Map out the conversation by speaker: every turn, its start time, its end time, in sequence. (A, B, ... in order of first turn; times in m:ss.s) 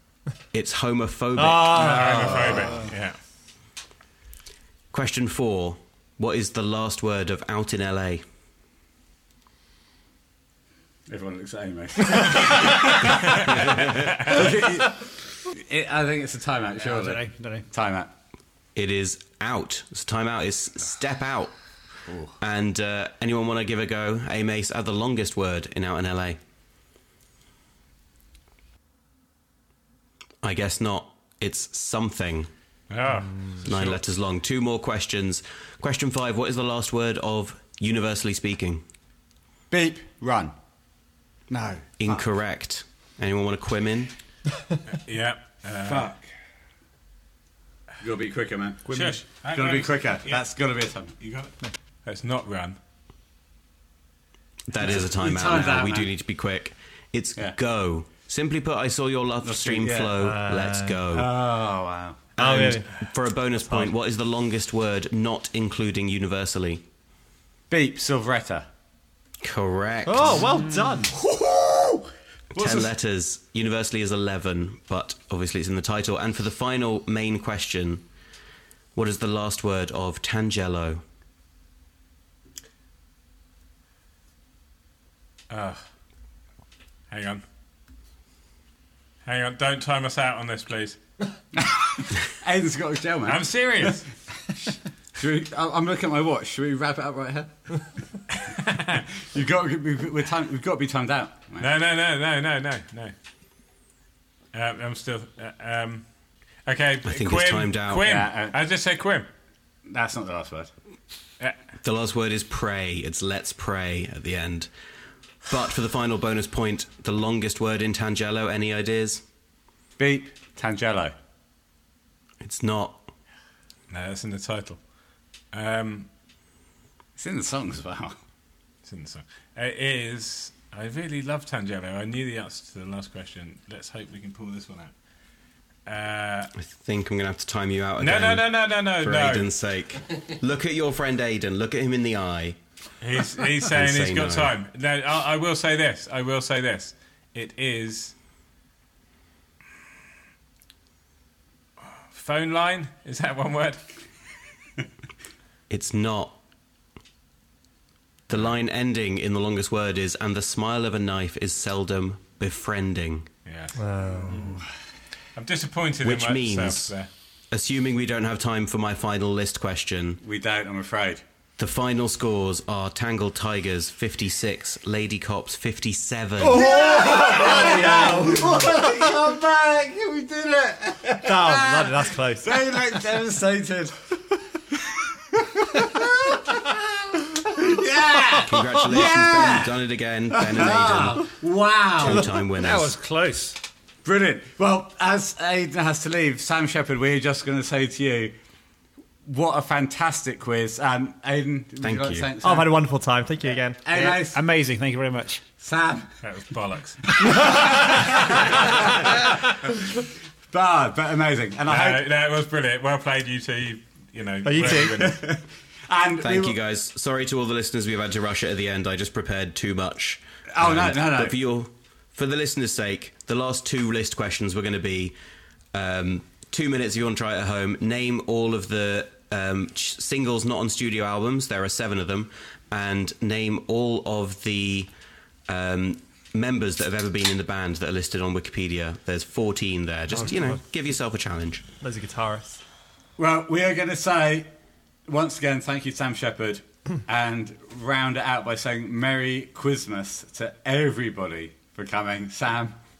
0:00.5-0:01.9 A
0:01.4-0:02.7 B
0:01.7-0:03.2 C
0:01.8-0:02.9 D
0:04.9-0:08.2 A
0:11.1-0:18.1 D
0:13.5-0:14.2 A
0:16.8-0:17.6 E
0:18.7-0:21.5 A
0:22.1-0:22.3 D
0:22.4-0:26.4 A
0:30.4-0:32.5 A
0:32.9-0:34.0 C
0:33.6-0:38.8 A
0:39.7-0:40.5 D
0:41.5-0:42.2 D
0:42.0-0:44.1 A
0:44.9-0:46.1 C
0:45.8-0:46.2 D
0:48.0-0:51.1 D
0:48.9-0:49.2 E
0:48.9-0:50.4 C
0:51.2-0:52.8 C
0:54.7-1:01.3 A
0:54.8-0:56.1 D
0:59.4-1:00.3 D
1:00.1-1:01.0 B
1:01.1-1:02.2 D
1:02.4-1:06.8 A
1:02.4-1:03.0 B
1:07.7-1:08.7 D
1:09.4-1:10.5 A
1:10.0-1:11.1 B
1:11.1-1:12.9 D
1:12.5-1:18.0 A
1:18.9-1:21.0 A
1:25.5-1:25.8 C
1:27.1-1:27.4 C
1:29.2-1:31.0 C
1:31.5-1:33.9 D
1:33.2-1:34.0 C
1:35.2-1:37.5 D
1:38.7-1:41.7 D
1:41.6-1:43.1 C
1:44.5-1:46.0 C
1:46.6-1:49.3 C
1:47.0-1:48.2 A
1:48.0-1:48.6 D
1:49.8-1:50.7 D
1:51.8-1:54.7 A
1:55.4-1:59.2 A
2:00.0-2:01.1 D
2:02.4-2:03.1 A
2:03.9-2:04.8 C
2:05.5-2:06.1 C
2:07.2-2:08.2 D
2:08.8-2:14.9 C
2:15.8-2:16.5 C
2:16.5-2:22.6 A
2:18.0-2:19.5 C
2:23.0-2:28.1 C
2:23.6-2:24.6 A
2:31.9-2:33.8 C
2:35.7-2:36.4 A
2:38.3-2:43.3 A
2:43.4-2:44.4 C
2:43.7-2:44.6 B
2:45.4-2:47.1 C
2:46.0-2:46.9 A
2:47.5-2:50.2 A
2:50.2-2:51.2 D
2:51.6-2:56.7 A
2:56.4-2:58.4 B
2:56.5-3:04.0 D
3:01.2-3:02.8 B
3:05.4-3:12.3 D
3:08.4-3:11.2 A
3:12.0-3:12.9 A
3:12.4-3:13.6 E
3:14.0-3:18.3 D
3:19.2-3:22.8 D
3:21.8-3:22.3 A
3:22.4-3:23.9 B
3:23.8-3:24.4 D
3:23.9-3:25.4 E
3:25.6-3:26.2 D
3:26.2-3:27.1 C
3:27.3-3:29.3 D
3:30.5-3:32.1 D
3:31.7-3:35.2 C
3:34.4-3:35.1 B
3:34.7-3:36.6 D
3:36.2-3:45.2 A
3:40.5-3:41.4 D
3:45.7-3:54.9 A
3:55.5-4:01.6 A
4:01.8-4:02.6 B
4:03.2-4:04.5 D
4:05.1-4:12.8 D